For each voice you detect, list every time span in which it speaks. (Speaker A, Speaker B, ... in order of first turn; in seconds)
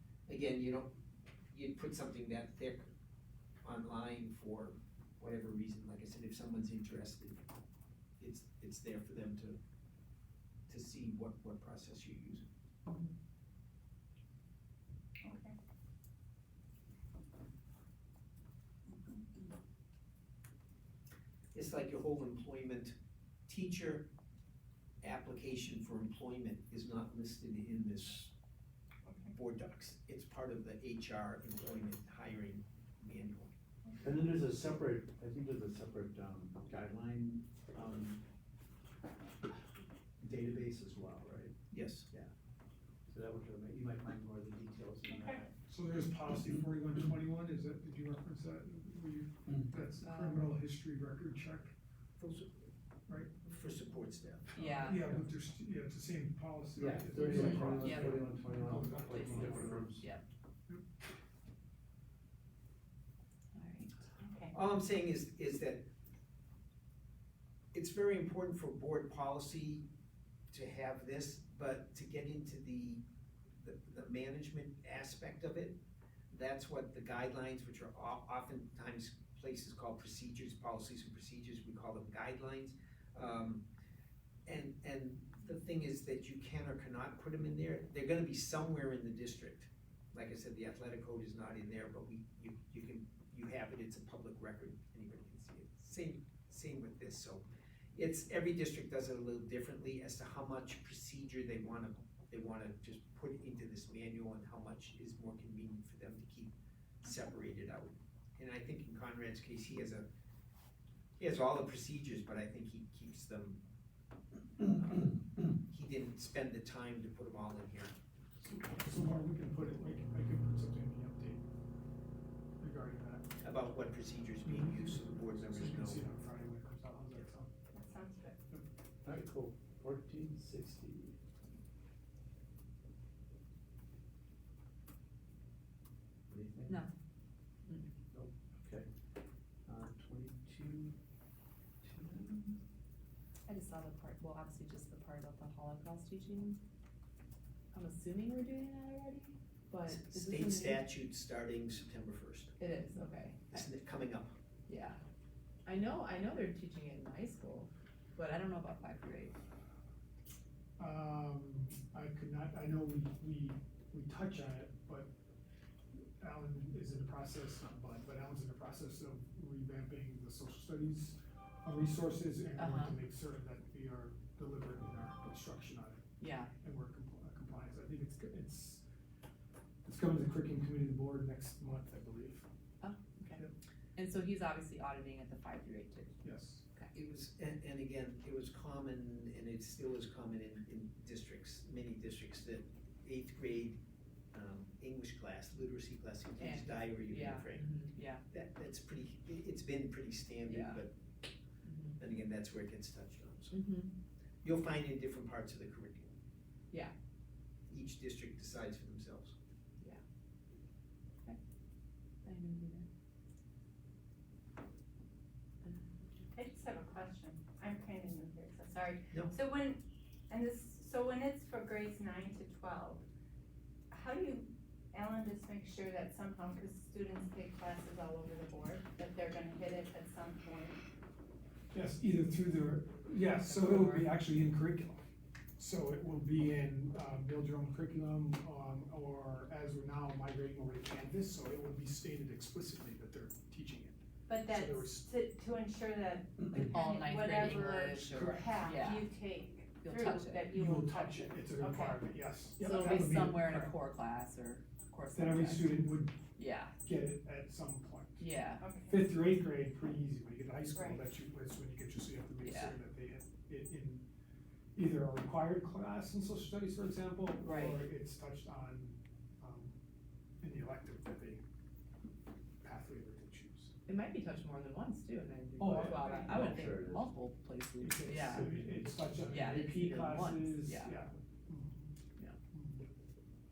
Speaker A: 0.3-0.9, 1.5-2.9, 3.6-7.4, 8.2-9.6, 10.7-12.5, 21.5-22.9, 23.5-24.1, 25.0-28.3, 29.3-33.5, 41.7-42.2, 52.2-52.5, 53.4-54.6, 64.5-65.9, 67.7-69.9, 70.5-73.0, 73.6-75.8, 76.3-83.6, 84.5-110.1, 111.2-113.6, 114.6-117.9, 123.4-126.1, 149.9-152.5, 153.5-154.4, 186.9-193.8, 194.3-197.7, 198.3-200.9, 202.0-203.6, 204.4-206.1, 207.7-209.3
Speaker B: 15.2-15.5, 45.1-45.5, 64.2-64.5, 127.7-128.4, 216.3-223.1, 223.9-230.8, 244.3-253.1, 258.6-259.1, 260.7-261.2, 276.0-276.4
Speaker C: 34.0-38.2, 40.2-41.6, 43.1-45.5, 56.8-60.1, 129.0-131.2, 136.3-136.8, 138.1-138.9, 139.7-141.0, 141.8-142.6, 276.3-277.1
Speaker D: 45.6-51.8, 53.1-53.4, 54.5-59.9, 118.4-121.5, 122.6-123.3, 124.4-127.5, 160.8-165.1, 166.2-176.1, 176.6-178.8, 179.8-182.5, 186.2-186.7, 231.7-235.0, 235.6-245.1, 248.0-248.8, 250.5-253.7, 255.1-256.2, 256.8-258.3, 258.8-264.1, 264.8-269.8, 270.4-271.4, 272.6-273.7, 275.6-276.7, 277.8-281.9, 282.5-282.9
Speaker E: 50.0-50.6, 54.5-55.1, 57.2-58.3, 59.0-60.2, 63.5-63.9, 137.7-137.9, 143.5-146.6, 147.7-150.8, 152.6-153.7, 154.7-155.0, 155.7-159.4, 172.6-173.0, 176.2-176.5, 182.8-183.4, 184.0-186.2, 196.4-198.2, 200.5-200.8, 201.6-202.0, 203.5-203.9, 212.2-212.9, 215.6-216.3, 233.4-234.1, 246.7-249.1, 249.8-250.5, 252.6-256.8, 258.2-258.6, 262.4-262.8, 267.4-267.8, 273.9-280.9